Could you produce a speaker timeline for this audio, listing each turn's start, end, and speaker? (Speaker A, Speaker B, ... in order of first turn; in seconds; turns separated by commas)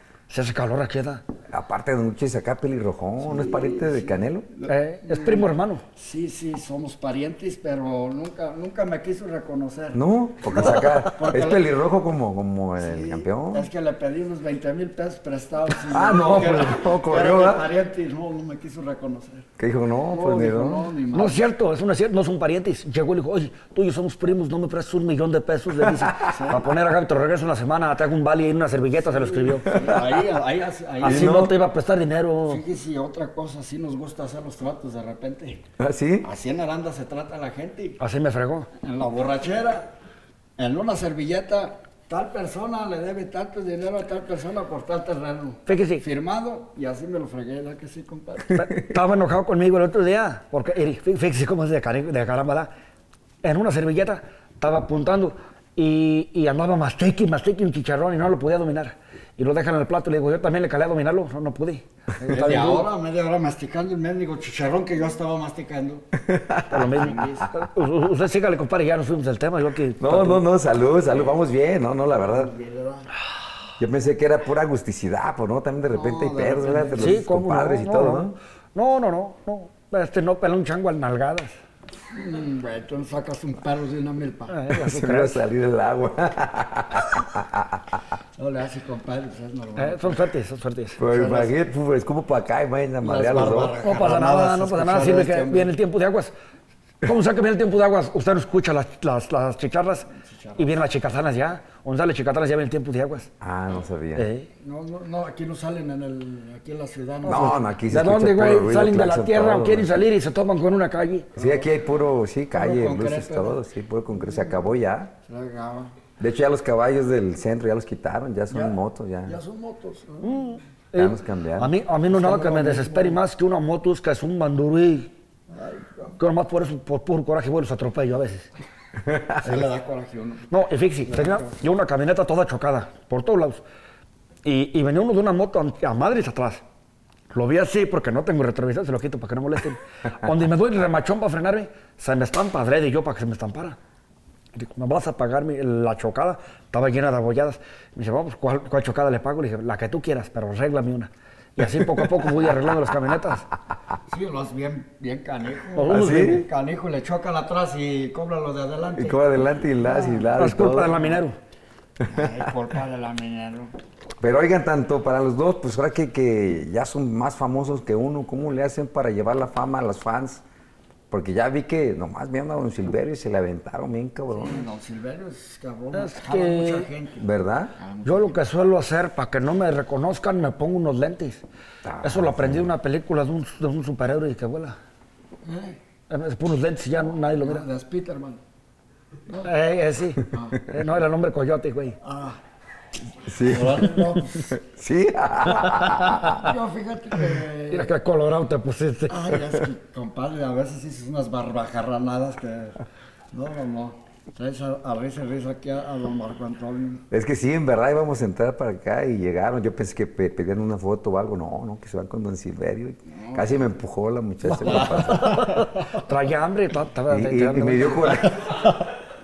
Speaker A: 0.3-1.2, Speaker B: 1.5-4.5, Speaker C: 3.2-11.7, Speaker A: 4.7-5.8, Speaker B: 9.9-13.7, Speaker C: 12.8-19.5, Speaker B: 15.9-17.6, Speaker B: 19.6-20.9, Speaker C: 20.1-21.5, Speaker A: 21.1-29.8, Speaker B: 25.8-26.1, Speaker C: 26.2-26.7, Speaker C: 29.1-31.4, Speaker B: 29.7-30.0, Speaker A: 31.0-32.6, Speaker B: 31.0-31.6, Speaker C: 32.5-35.6, Speaker B: 35.8-36.3, Speaker C: 36.2-38.0, Speaker A: 38.0-38.7, Speaker C: 38.8-39.9, Speaker C: 40.6-48.7, Speaker A: 45.7-46.0, Speaker A: 48.5-52.7, Speaker A: 53.4-62.9, Speaker C: 62.3-66.1, Speaker B: 66.2-67.5, Speaker A: 66.7-70.4, Speaker C: 66.8-67.5, Speaker B: 70.0-72.5, Speaker C: 71.1-71.4, Speaker C: 72.1-73.1, Speaker B: 73.8-78.4, Speaker C: 75.9-77.2, Speaker A: 77.0-81.5, Speaker C: 82.1-84.6, Speaker A: 84.5-85.4, Speaker B: 84.7-87.8, Speaker C: 88.4-90.3, Speaker A: 89.8-91.0, Speaker B: 91.0-93.8, Speaker C: 91.0-91.5, Speaker C: 93.0-95.7, Speaker A: 93.8-96.3, Speaker A: 97.0-103.3, Speaker C: 100.1-100.8, Speaker B: 103.4-104.3, Speaker A: 104.2-104.5, Speaker C: 104.6-107.6, Speaker A: 107.2-111.3, Speaker B: 107.3-110.0, Speaker B: 111.4-115.1, Speaker C: 111.4-111.7, Speaker C: 112.5-113.6, Speaker C: 114.1-114.7, Speaker C: 115.3-115.9, Speaker B: 116.2-119.4, Speaker C: 118.5-120.6, Speaker A: 120.2-125.1, Speaker B: 120.9-121.7, Speaker C: 122.1-123.2, Speaker C: 125.5-126.2, Speaker A: 126.2-128.5, Speaker B: 129.1-129.4, Speaker C: 129.4-130.5, Speaker A: 130.5-133.6, Speaker C: 131.1-131.6, Speaker A: 134.4-136.6, Speaker A: 137.3-143.8, Speaker A: 144.6-153.5, Speaker C: 154.1-159.2, Speaker A: 155.8-156.4, Speaker B: 155.9-156.4, Speaker B: 159.0-161.0, Speaker C: 159.8-160.3, Speaker A: 160.4-161.3, Speaker B: 162.0-162.4, Speaker C: 162.1-163.7, Speaker B: 164.2-170.4, Speaker B: 171.1-174.7, Speaker C: 174.3-177.2, Speaker A: 175.9-176.9, Speaker B: 177.2-177.7, Speaker C: 177.8-178.4, Speaker A: 178.1-181.4, Speaker B: 181.8-182.7, Speaker A: 182.0-184.8, Speaker C: 185.4-185.8, Speaker A: 186.1-187.7, Speaker C: 187.0-188.4, Speaker A: 189.4-192.0, Speaker C: 190.3-190.6, Speaker C: 192.0-192.4, Speaker B: 193.2-196.5, Speaker C: 193.4-194.6, Speaker C: 196.2-197.9, Speaker A: 197.7-199.3, Speaker C: 199.1-202.8, Speaker C: 203.3-207.1, Speaker B: 207.1-215.5, Speaker C: 213.1-213.7, Speaker C: 214.5-215.9, Speaker A: 214.5-218.3, Speaker B: 217.1-218.7, Speaker C: 218.4-218.7